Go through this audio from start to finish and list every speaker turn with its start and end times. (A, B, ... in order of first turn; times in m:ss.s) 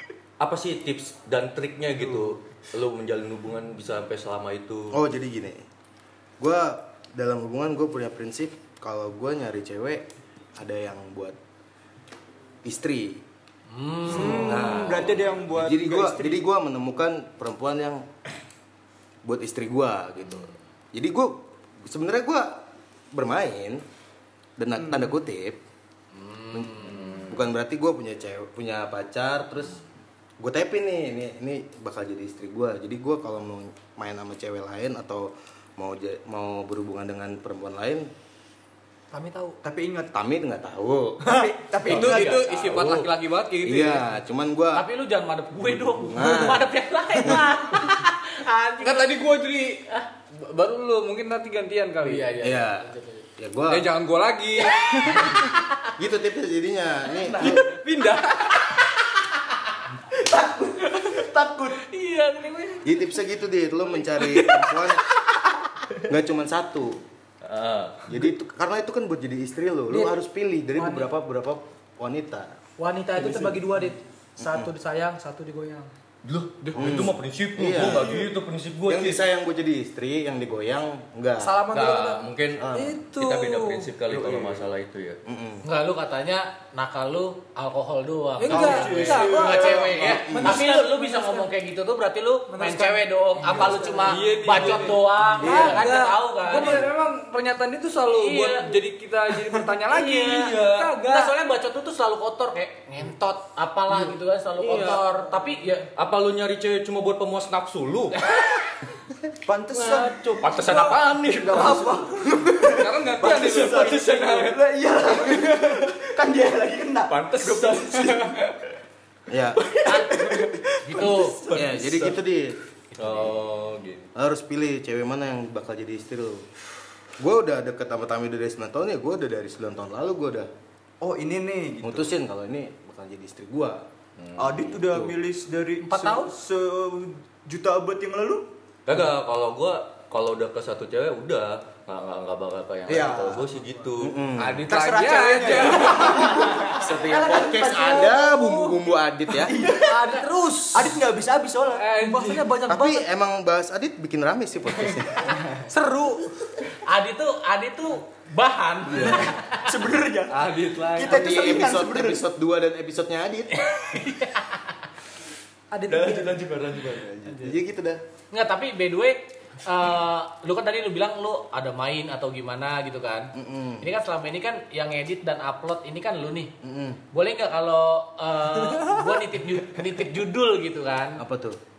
0:00.4-0:05.0 A
0:04.9-0:05.6 B
0:06.4-0:10.0 B
0:10.6-0:11.4 B
0:12.6-0:13.2 B
0:13.7-0:14.8 C
0:14.0-0:16.4 D
0:14.2-0:18.0 B
0:19.2-0:23.8 B
0:24.6-0:25.6 B
0:24.8-0:25.1 D
0:26.1-0:27.4 C
0:26.5-0:29.8 B
0:30.4-0:38.1 B
0:39.1-0:39.6 E
0:39.6-0:40.1 D
0:40.1-0:41.4 B
0:41.2-0:42.5 D
0:41.8-0:44.1 F
0:41.9-0:42.9 C
0:42.7-0:43.0 A
0:43.6-0:44.9 B
0:44.7-0:49.2 C
0:45.6-0:46.7 B
0:47.2-0:47.6 B
0:48.8-0:52.3 F
0:52.0-0:53.2 C
0:52.4-0:53.9 B
0:53.7-0:55.4 F
0:54.8-0:55.8 C
0:56.0-0:57.7 B
0:57.2-0:57.8 C
0:57.4-0:58.7 F
0:58.5-0:59.5 C
1:00.2-1:01.8 D
1:00.8-1:02.9 C
1:02.8-1:05.0 B
1:06.1-1:07.0 B
1:07.4-1:08.1 A
1:08.1-1:12.6 B
1:09.9-1:10.2 E
1:10.7-1:11.1 E
1:12.8-1:15.9 E
1:13.2-1:13.5 B
1:14.4-1:14.7 B
1:16.2-1:19.2 A
1:16.6-1:17.0 F
1:16.8-1:18.3 B
1:17.8-1:18.2 D
1:18.9-1:21.6 B
1:21.4-1:23.9 E
1:21.7-1:25.2 A
1:22.6-1:23.0 B
1:24.2-1:24.5 D
1:25.2-1:25.6 B
1:25.6-1:36.8 C
1:28.4-1:31.5 E
1:28.5-1:30.2 D
1:29.0-1:29.3 F
1:29.9-1:30.6 B
1:32.5-1:34.2 E
1:34.0-1:35.9 F
1:35.4-1:35.8 D
1:35.4-1:36.8 E
1:36.4-1:40.6 F
1:38.1-1:38.8 C
1:39.9-1:45.9 C
1:40.4-1:40.9 A
1:40.6-1:41.3 E
1:44.6-1:45.0 F
1:46.0-1:48.2 A
1:48.2-1:48.6 C
1:49.4-1:58.4 D
1:50.2-1:52.0 A
1:50.6-1:50.8 E
1:52.6-1:53.8 F
1:53.3-1:54.6 A
1:57.1-1:58.4 A
1:59.3-1:59.6 B
1:59.6-2:02.2 D
1:59.8-2:01.4 C
2:01.5-2:02.6 B
2:02.9-2:03.4 C
2:03.0-2:04.1 A
2:04.1-2:06.5 B
2:07.2-2:10.5 B
2:11.0-2:12.1 D
2:11.8-2:13.9 B
2:14.2-2:15.2 A
2:14.4-2:18.5 D
2:15.8-2:16.3 E
2:18.9-2:24.2 A
2:22.9-2:23.5 D
2:24.0-2:24.7 B
2:24.4-2:26.4 F
2:24.6-2:28.1 D
2:25.8-2:27.5 A
2:26.4-2:29.6 B
2:27.4-2:28.8 E
2:29.3-2:30.2 D
2:29.7-2:31.0 E
2:30.7-2:31.9 D
2:31.8-2:32.6 F
2:32.0-2:33.0 E
2:32.7-2:35.4 B
2:35.7-2:36.3 E
2:36.8-2:39.7 C
2:38.9-2:39.3 B
2:39.0-2:42.2 D
2:40.3-2:41.2 F
2:41.1-2:43.7 B
2:43.6-2:44.7 C
2:45.7-2:46.4 E
2:45.9-2:47.4 A
2:47.3-2:48.0 B
2:48.3-2:56.5 C
2:53.3-2:53.9 B
2:56.6-2:57.0 B
2:57.1-3:01.2 C
3:01.2-3:01.6 B